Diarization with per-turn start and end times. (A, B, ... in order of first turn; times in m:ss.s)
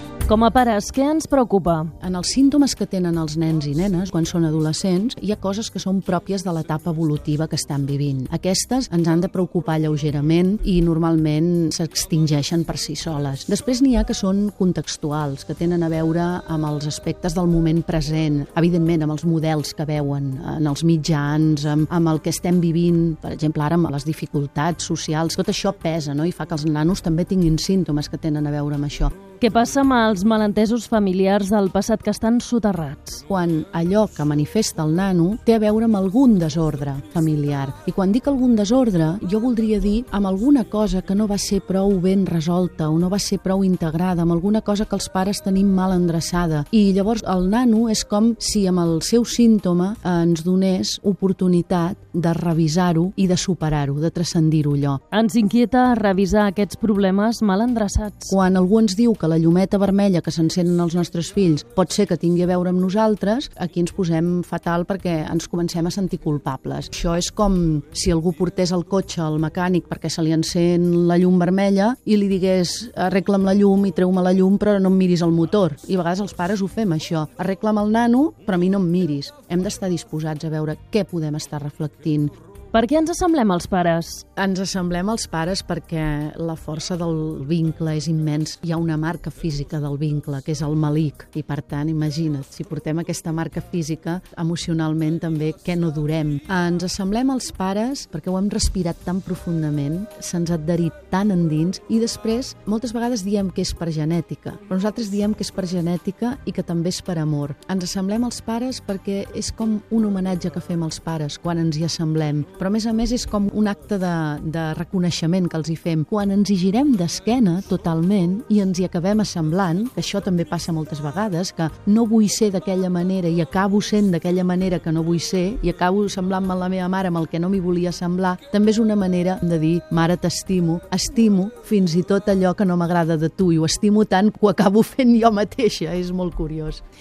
0:00.2-0:01.9 A
0:02.0-0:29.1 B
0:29.4-0:33.2 A
0:33.3-0:55.0 B
0:55.1-0:58.4 A
0:58.3-1:22.3 B
1:22.7-1:24.2 A
1:24.4-2:16.8 B